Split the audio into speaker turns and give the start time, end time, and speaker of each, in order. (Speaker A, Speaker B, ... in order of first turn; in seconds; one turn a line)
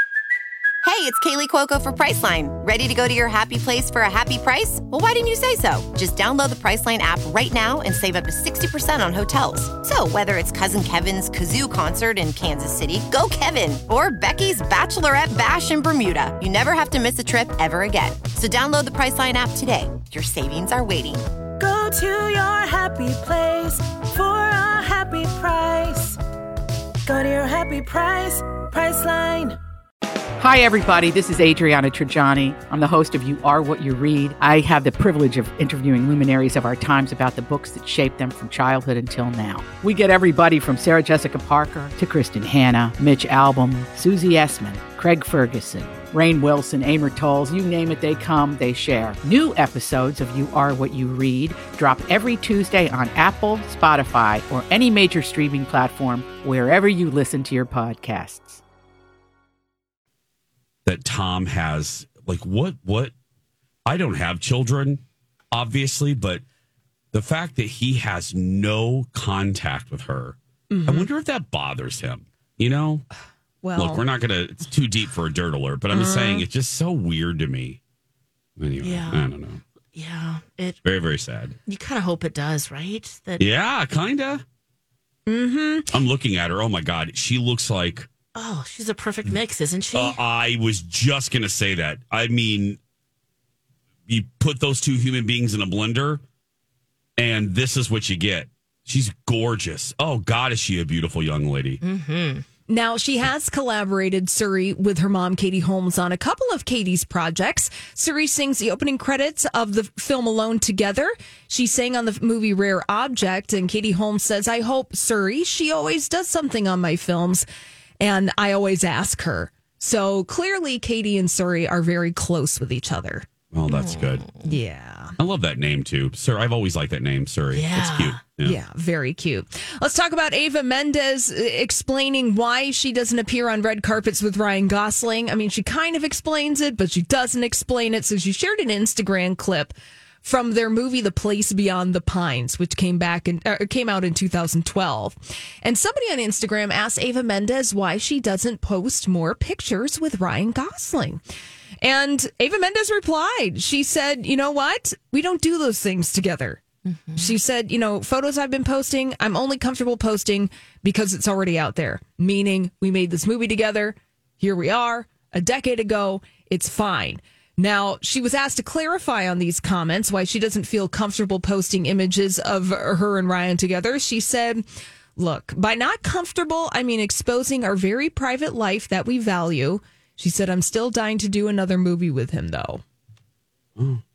Speaker A: 0.8-21.2
Speaker B: 21.6-26.2
Speaker B: 27.1-29.6
Speaker C: 30.4-58.6
Speaker D: 60.9-63.1
Speaker D: 63.9-66.4
Speaker D: 67.1-73.1
Speaker E: 70.7-71.1
Speaker E: 73.6-74.0
Speaker D: 73.8-77.8
Speaker E: 75.9-76.5
Speaker D: 78.6-79.6
Speaker F: 78.8-79.3
Speaker F: 80.0-80.8
Speaker D: 80.8-81.6
Speaker F: 81.7-83.4
Speaker D: 83.4-84.4
Speaker E: 85.3-85.9
Speaker D: 85.9-88.1
Speaker F: 88.3-90.2
Speaker D: 89.9-92.8
Speaker D: 94.1-96.2
Speaker D: 97.2-101.8
Speaker F: 101.8-102.5
Speaker E: 102.7-117.5
Speaker E: 118.0-123.3
Speaker D: 123.5-124.2
Speaker F: 123.7-124.5
Speaker E: 124.4-125.1
Speaker D: 125.2-128.6
Speaker F: 127.5-128.2
Speaker E: 128.4-151.2
Speaker E: 151.8-156.6
Speaker F: 156.8-157.3
Speaker E: 157.2-174.6
Speaker E: 175.2-182.8
Speaker D: 183.8-184.0